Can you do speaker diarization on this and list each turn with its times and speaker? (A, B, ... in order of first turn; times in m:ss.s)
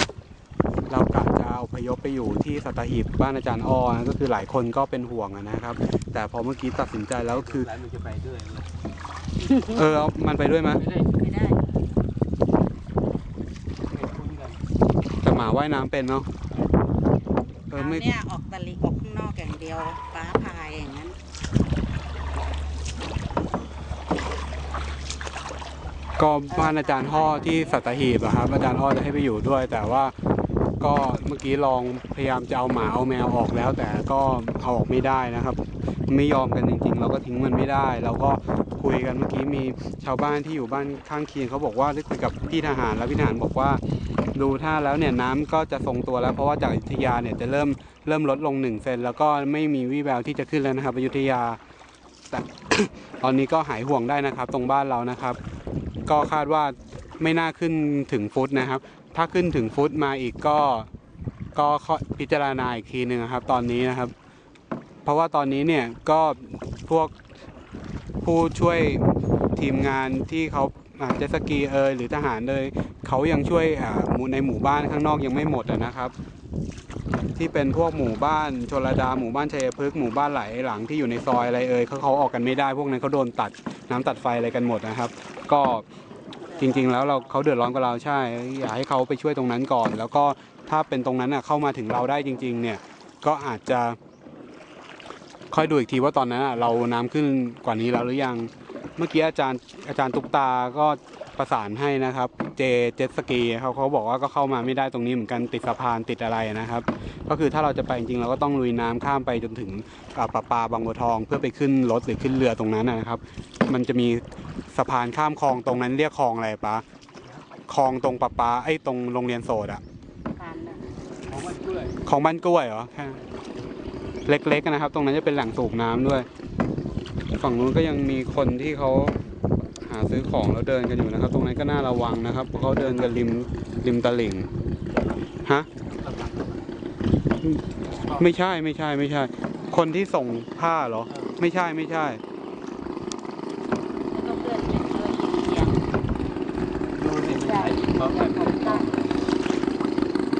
0:00.9-0:07.7 A
0:07.2-0:08.7 B
0:09.5-0:09.8 C
0:09.7-0:10.8 A
0:10.8-0:11.2 B
0:11.1-0:11.6 C
0:13.9-0:14.6 B
0:15.2-0:16.3 A
0:17.7-0:18.1 A
0:17.7-0:21.2 C
0:26.2-0:30.1 A
0:26.5-0:28.3 C
0:30.8-0:43.8 A
0:44.3-0:51.6 A
0:52.3-0:55.4 A
0:56.1-1:00.9 A
1:01.5-1:04.1 A
1:05.0-1:07.1 A
1:08.2-1:16.1 A
1:17.3-1:25.8 A
1:26.4-1:27.3 C
1:26.6-1:34.0 A
1:35.5-1:56.8 A
1:57.7-1:59.8 A
2:00.4-2:00.8 C
2:01.3-2:02.0 B
2:02.0-2:03.2 A
2:04.2-2:06.3 A
2:07.3-2:09.2 A
2:09.8-2:14.5 A
2:12.6-2:13.1 B
2:15.8-2:16.7 B
2:17.9-2:18.2 B
2:18.2-2:22.2 A
2:21.1-2:21.3 B
2:24.1-2:25.8 C
2:26.9-2:29.2 B
2:27.3-2:28.9 C